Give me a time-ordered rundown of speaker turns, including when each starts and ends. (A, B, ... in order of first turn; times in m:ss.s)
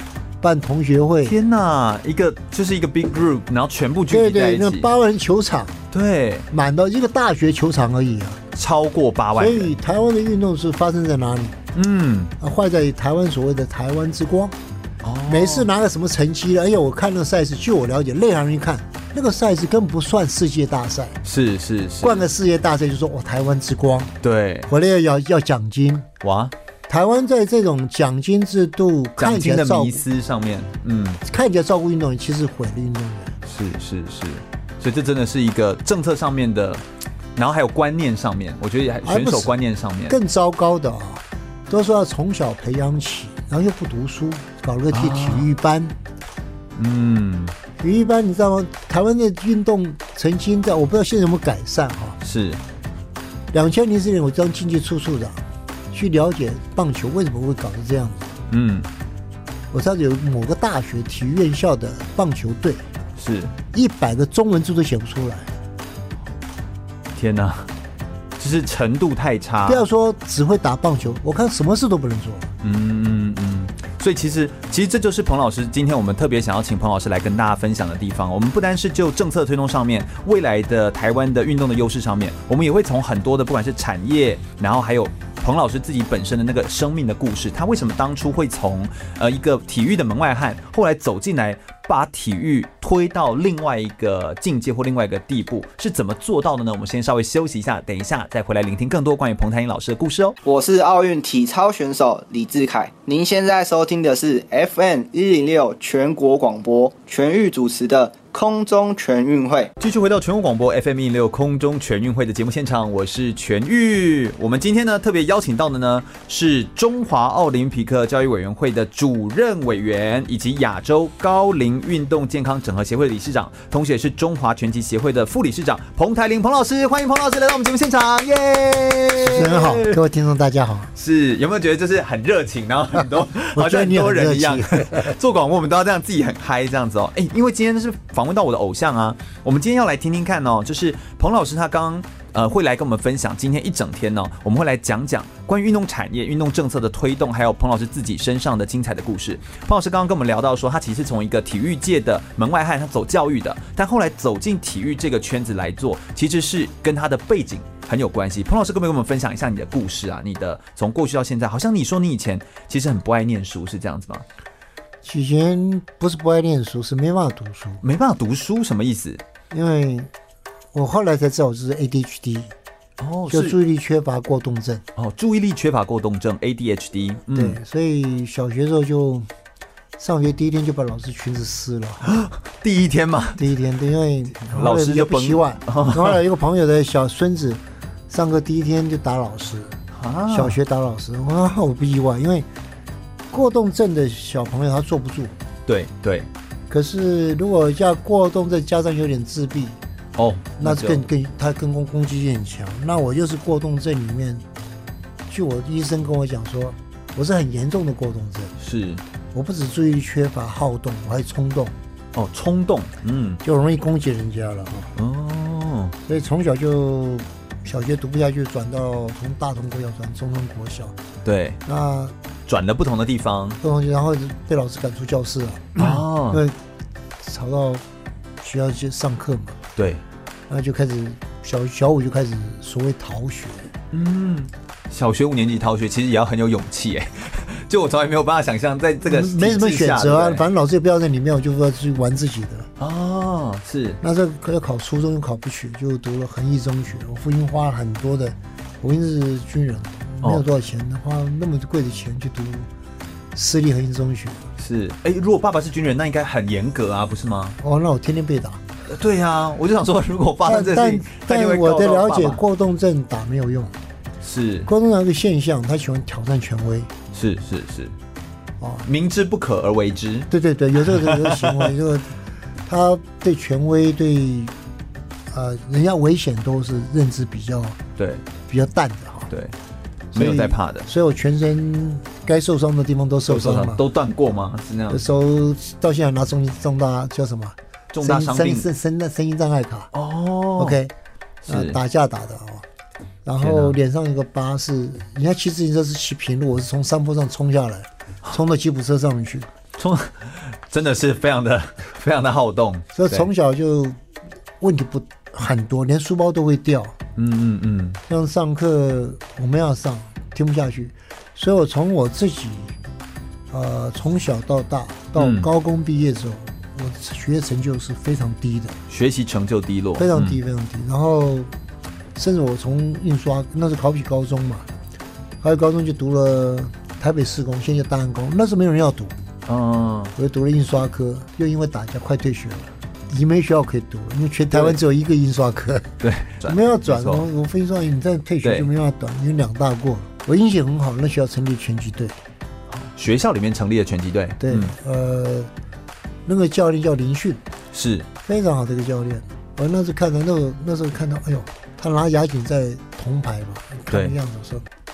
0:00.4-0:01.4 A
0:01.2-0:04.9 B
0:04.1-0:05.8 A
0:05.9-0:06.5 B
0:06.5-0:08.4 A
0:08.5-0:09.7 B
0:09.3-0:11.6 A
0:11.7-0:12.3 B
0:12.4-0:14.6 A
0:15.0-0:15.7 B
0:15.3-0:21.2 A
0:21.2-0:22.2 B
0:22.0-0:24.1 A
0:24.2-0:24.7 B
0:24.7-0:26.1 A
0:26.2-0:26.5 B
0:26.9-0:30.0 A
0:29.2-0:31.2 B
0:31.2-0:33.4 A
0:33.4-0:36.8 B
0:37.4-0:40.2 B
0:39.0-0:39.5 A
0:40.1-0:46.0 A
0:44.9-0:45.5 B
0:46.8-0:47.6 B
0:47.8-0:52.2 A
0:52.2-0:52.6 B
0:53.5-0:58.3 A
0:58.5-0:58.9 B
0:59.7-1:02.8 A
1:03.2-1:03.5 B
1:03.7-1:05.5 A
1:07.1-1:07.7 B
1:08.4-1:09.8 B
1:09.6-1:12.5 A
1:12.6-1:40.4 B
1:40.4-1:49.7 C
1:49.8-2:10.0 B
2:09.2-2:10.9 A
2:10.9-2:44.2 B
2:13.0-2:15.2 A
2:45.0-2:47.8 A
2:47.8-2:49.2 B
2:49.5-2:50.1 A
2:50.7-2:52.5 A
2:53.0-2:53.6 B
2:53.3-2:54.8 A
2:55.0-2:57.6 B
2:57.3-2:59.3 A
3:00.0-3:02.1 A
3:02.0-3:03.4 B
3:03.4-3:09.8 A
3:04.4-3:06.2 B
3:09.9-3:10.6 B
3:10.3-3:12.5 A
3:13.3-3:15.4 A
3:15.6-3:16.3 B
3:16.7-3:19.8 A
3:20.2-3:21.0 B
3:20.6-3:24.4 A
3:25.3-3:28.5 A
3:28.6-3:29.0 B
3:29.3-3:31.7 A
3:32.1-3:33.4 B
3:33.4-3:34.9 A
3:35.0-3:35.9 B
3:36.0-3:41.0 A
3:41.2-3:41.6 B
3:41.6-3:42.1 A
3:42.5-3:43.6 B
3:43.6-3:46.6 A
3:45.8-3:46.4 B
3:47.2-3:47.8 A
3:48.4-3:49.6 A
3:49.8-3:50.0 B
3:50.5-3:53.7 A
3:53.9-4:00.4 B
3:59.0-4:02.7 A
4:02.8-4:04.0 B
4:04.0-4:12.7 A
4:13.3-4:14.4 A
4:14.6-4:17.6 B
4:17.6-4:18.6 A
4:18.9-4:22.4 B
4:20.4-4:23.8 A
4:24.2-4:24.7 B
4:24.7-4:26.9 A
4:27.1-4:27.9 B
4:28.6-4:28.8 A
4:28.8-4:30.3 B
4:30.3-4:32.1 A
4:30.8-4:31.7 B
4:32.6-4:34.5 A
4:35.3-4:37.8 A
4:38.0-4:38.2 B
4:38.5-4:39.3 A
4:39.3-4:39.5 B
4:40.1-4:43.8 A
4:40.1-4:40.9 B
4:43.3-4:45.0 B
4:44.9-4:49.9 A
4:47.9-4:48.7 B
4:49.9-4:50.8 B
4:50.6-4:50.9 A
4:51.4-4:51.8 B
4:51.5-4:52.6 A
4:53.2-4:59.5 A
4:53.4-4:53.8 B
4:59.8-5:03.3 B
5:02.9-5:04.0 A
5:04.6-5:07.0 A
5:07.2-5:08.0 B
5:08.1-5:12.7 A
5:13.5-5:18.8 A
5:15.2-5:15.5 B
5:18.9-5:20.4 B
5:20.0-5:21.5 A
5:22.1-5:24.7 A
5:25.4-5:29.1 A
5:29.5-5:30.1 B
5:30.2-5:35.9 A
5:34.5-5:34.8 B
5:36.0-5:37.2 B
5:36.4-5:42.2 A
5:38.4-5:38.7 B
5:42.7-5:44.7 B
5:44.4-5:45.5 A
5:46.2-5:47.4 A
5:47.7-5:48.1 B
5:48.2-5:54.6 A
5:53.9-5:54.2 B